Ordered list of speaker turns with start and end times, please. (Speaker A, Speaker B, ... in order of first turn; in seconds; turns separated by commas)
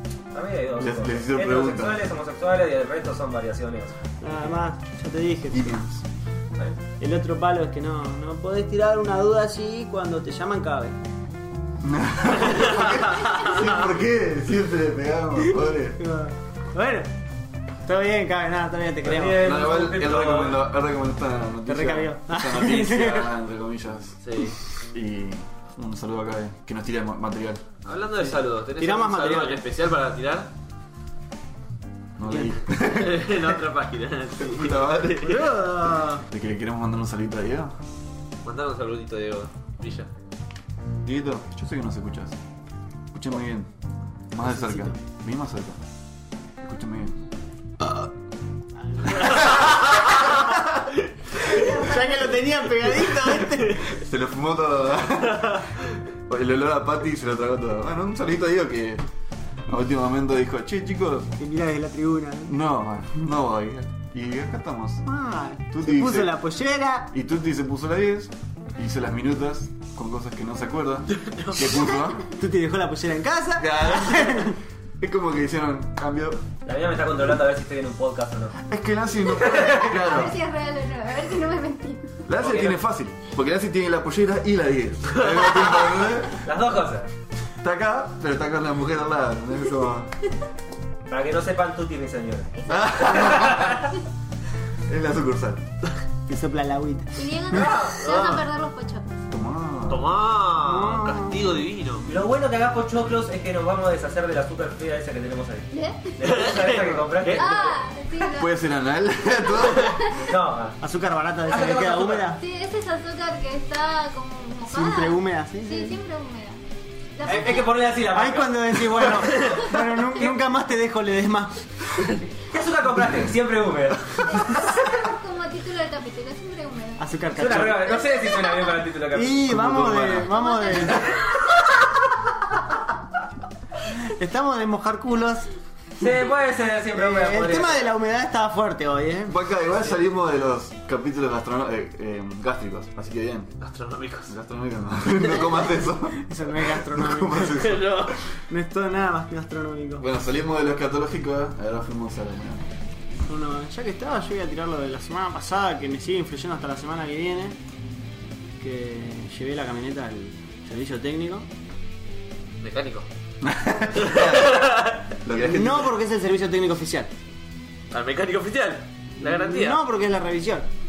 Speaker A: 0.3-4.0, Speaker B: 0.8-2.0, Speaker C: 4.2-5.8, Speaker B: 5.5-6.0, Speaker C: 7.0-11.0, Speaker B: 11.8-16.0, Speaker C: 16.0-17.1, Speaker C: 17.9-19.4, Speaker A: 19.0-20.6, Speaker B: 19.4-24.2, Speaker C: 21.7-23.3, Speaker D: 24.2-24.6, Speaker B: 24.9-27.8, Speaker D: 27.9-30.5, Speaker C: 28.2-29.6, Speaker B: 32.2-33.5, Speaker D: 32.8-35.5, Speaker B: 34.4-35.5, Speaker C: 35.2-36.2, Speaker B: 36.3-37.7, Speaker D: 38.4-40.1, Speaker B: 41.0-42.4, Speaker B: 43.1-43.7, Speaker B: 44.3-45.9, Speaker C: 44.4-45.0, Speaker B: 46.6-47.2, Speaker C: 48.8-50.5, Speaker B: 49.2-49.6, Speaker C: 51.3-54.0, Speaker B: 53.1-55.7, Speaker B: 56.3-59.0, Speaker B: 59.7-61.4, Speaker C: 61.4-62.6, Speaker B: 62.5-65.0, Speaker C: 65.1-67.1, Speaker B: 65.7-66.4, Speaker B: 67.1-72.3, Speaker D: 71.1-71.6, Speaker C: 72.3-74.6, Speaker B: 73.6-76.4, Speaker A: 76.7-78.6, Speaker B: 78.7-80.4, Speaker A: 79.4-80.0, Speaker E: 79.9-82.2, Speaker B: 82.3-86.4, Speaker A: 82.3-82.8, Speaker A: 86.3-87.1, Speaker B: 87.6-90.1, Speaker A: 91.1-94.0, Speaker E: 92.6-93.2, Speaker B: 92.7-93.8, Speaker B: 94.9-95.6, Speaker C: 96.3-98.2, Speaker E: 97.2-99.2, Speaker A: 97.5-98.3, Speaker B: 99.3-100.2, Speaker D: 99.9-102.1, Speaker C: 100.6-101.5, Speaker A: 102.0-107.7, Speaker E: 105.7-106.2, Speaker D: 106.3-107.7, Speaker E: 107.4-108.5, Speaker B: 108.4-110.1, Speaker E: 109.9-110.2, Speaker A: 110.1-110.8, Speaker C: 110.8-112.4, Speaker A: 111.5-112.3, Speaker E: 112.4-116.6, Speaker C: 114.7-116.0, Speaker E: 117.2-117.7, Speaker A: 117.2-119.4, Speaker C: 117.3-121.7, Speaker A: 122.3-124.7, Speaker E: 124.2-127.1, Speaker C: 127.0-128.0, Speaker A: 127.3-129.5, Speaker E: 128.2-128.8, Speaker C: 129.1-131.2, Speaker B: 129.4-130.3, Speaker E: 130.3-131.4, Speaker C: 134.0-135.5, Speaker A: 136.0-138.0, Speaker C: 136.9-139.4, Speaker B: 139.3-143.5, Speaker D: 143.6-144.3, Speaker B: 144.3-148.2, Speaker C: 146.1-147.7, Speaker D: 147.5-148.2, Speaker C: 148.5-150.1, Speaker B: 150.0-152.6, Speaker C: 153.3-157.6, Speaker C: 158.6-161.5, Speaker D: 162.6-163.1, Speaker B: 163.4-165.9, Speaker D: 164.0-165.1, Speaker C: 165.4-167.1, Speaker D: 167.9-169.8, Speaker C: 169.2-170.7